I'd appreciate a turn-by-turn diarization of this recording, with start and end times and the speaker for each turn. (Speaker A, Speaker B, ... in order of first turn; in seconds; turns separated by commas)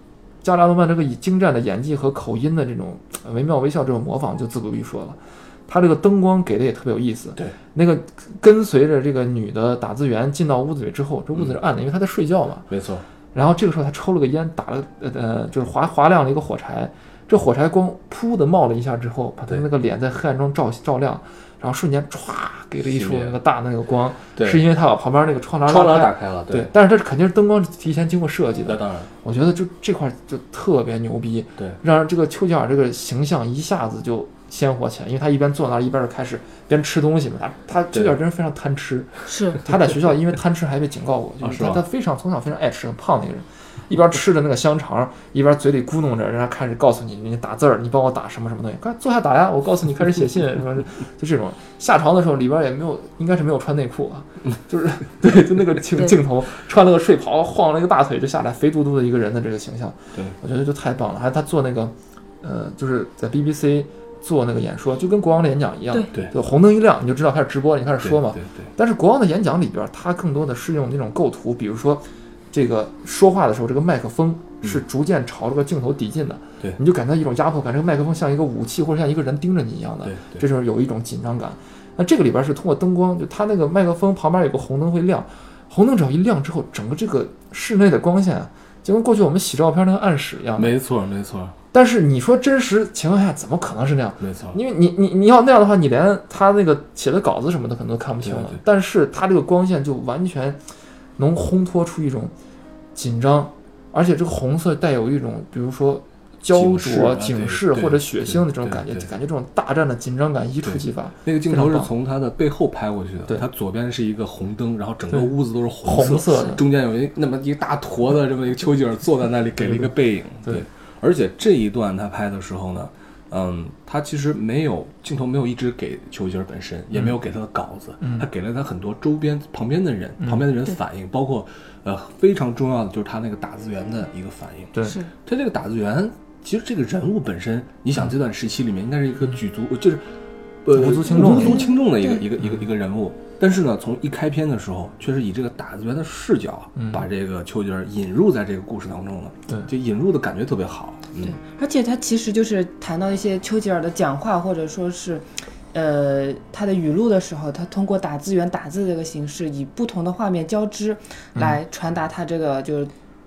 Speaker A: 0.4-12.7, Speaker B: 12.7-13.0, Speaker A: 13.3-90.8, Speaker B: 22.8-23.4, Speaker B: 24.4-24.6, Speaker B: 25.7-26.7, Speaker B: 28.6-29.1, Speaker C: 39.3-39.6, Speaker B: 41.4-41.8, Speaker B: 68.0-68.7, Speaker B: 80.0-80.4, Speaker B: 90.6-91.5, Speaker A: 91.7-100.6, Speaker B: 94.2-94.6, Speaker B: 98.2-98.6, Speaker A: 101.2-102.3, Speaker A: 103.0-111.9, Speaker B: 106.5-109.0, Speaker B: 110.6-134.7, Speaker A: 115.1-116.6, Speaker A: 128.0-128.3, Speaker C: 134.8-135.1, Speaker B: 135.2-140.1, Speaker B: 140.7-151.4, Speaker A: 140.7-141.7, Speaker C: 141.2-142.2, Speaker A: 146.8-147.0, Speaker C: 151.2-162.9